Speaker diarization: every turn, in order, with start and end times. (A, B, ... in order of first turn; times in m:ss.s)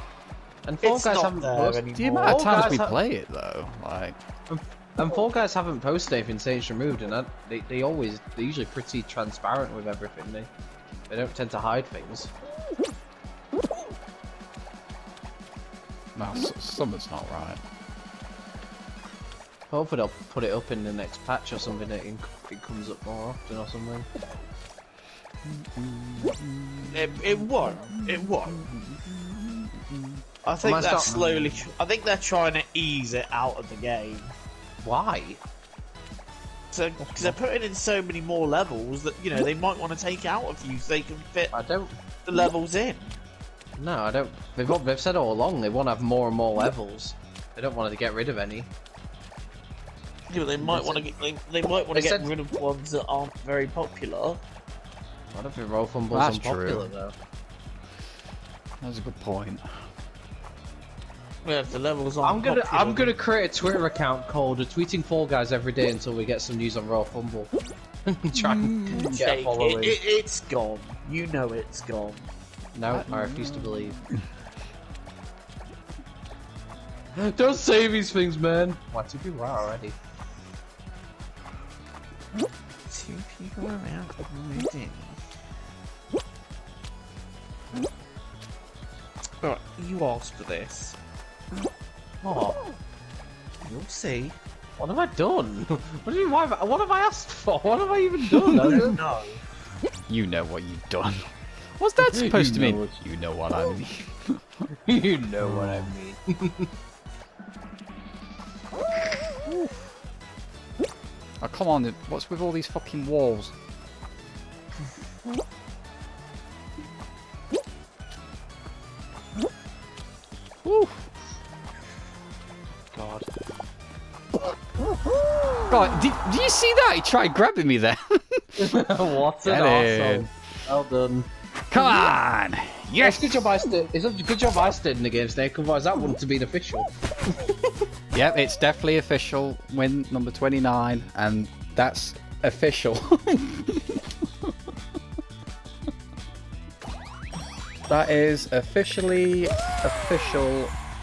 0:00.6-0:03.0 A
0:00.8-0:02.6 B
0:02.0-0:04.2 C
0:04.5-0:10.5 A
0:11.1-0:12.3 A
0:16.2-0:17.6 C
0:19.7-0:24.1 A
0:25.4-0:30.2 C
0:26.9-0:28.6 B
0:30.4-0:34.3 B
0:30.6-0:31.3 A
0:34.8-0:35.4 A
0:36.7-0:41.5 B
0:37.1-0:37.4 A
0:41.5-0:41.9 A
0:42.2-0:43.2 B
0:43.8-0:48.7 A
0:50.3-0:54.4 B
0:50.6-0:51.1 A
0:51.9-0:52.3 A
0:55.3-0:57.1 A
0:56.1-0:56.9 C
0:58.8-0:59.6 C
1:01.4-1:03.1 B
1:02.2-1:07.5 A
1:08.1-1:10.0 A
1:08.4-1:09.2 C
1:09.0-1:12.3 B
1:12.7-1:14.0 A
1:12.9-1:14.2 C
1:17.1-1:20.0 A
1:22.9-1:25.2 B
1:29.4-1:31.0 B
1:32.2-1:32.6 A
1:33.6-1:34.4 B
1:34.8-1:39.0 A
1:38.5-1:38.9 C
1:38.6-1:39.4 B
1:40.1-1:44.4 C
1:42.1-1:42.9 A
1:44.9-1:46.7 A
1:45.4-1:45.9 C
1:51.4-1:53.5 C
2:00.6-2:01.1 C
2:02.9-2:03.3 A
2:05.7-2:08.6 C
2:08.6-2:12.1 A
2:09.4-2:10.3 C
2:11.7-2:13.5 C
2:13.0-2:16.9 A
2:18.1-2:23.8 C
2:27.9-2:30.7 C